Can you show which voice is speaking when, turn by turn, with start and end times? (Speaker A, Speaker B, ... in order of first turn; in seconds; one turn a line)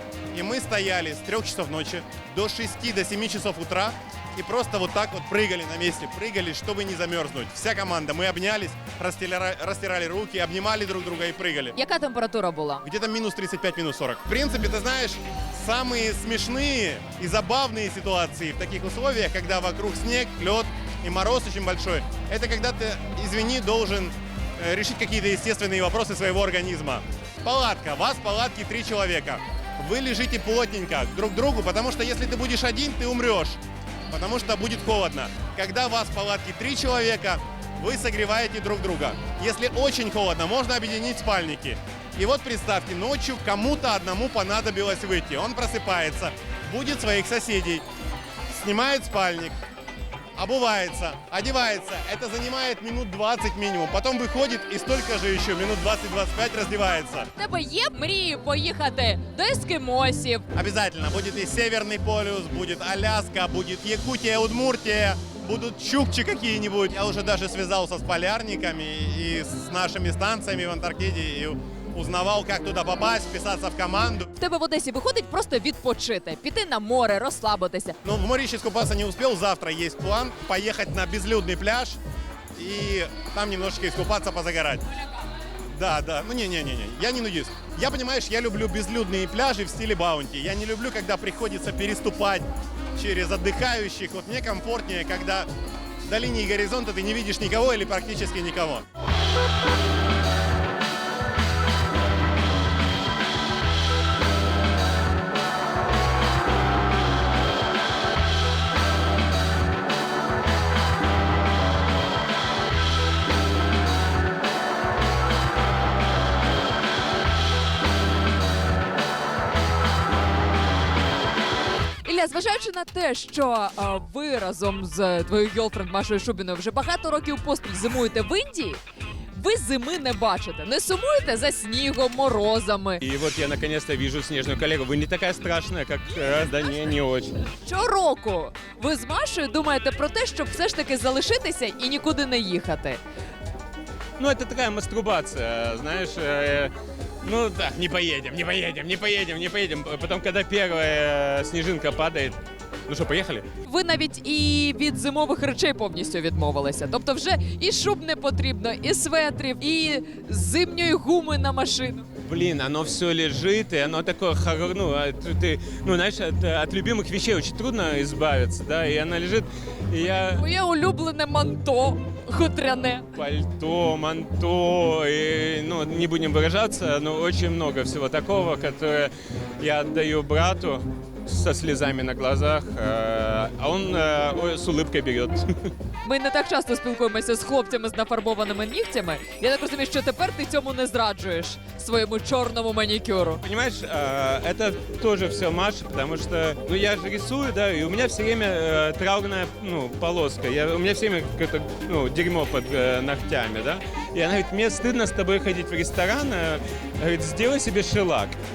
Speaker A: 0.3-11.7
Speaker B: 11.7-12.8
Speaker A: 12.8-47.8
Speaker A: 48.5-49.5
Speaker A: 50.4-57.3
Speaker B: 57.4-60.4
Speaker A: 60.5-74.3
Speaker B: 74.3-78.0
Speaker A: 78.0-82.0
Speaker A: 82.6-84.8
Speaker A: 85.7-95.5
Speaker A: 96.1-98.8
Speaker B: 122.0-128.8
Speaker B: 129.3-133.0
Speaker C: 133.0-137.4
Speaker B: 137.6-143.0
Speaker C: 144.2-153.4
Speaker B: 153.6-162.1
Speaker C: 162.2-170.4
Speaker B: 170.3-173.1
Speaker C: 173.1-185.7
Speaker B: 186.0-193.4
Speaker C: 193.4-208.4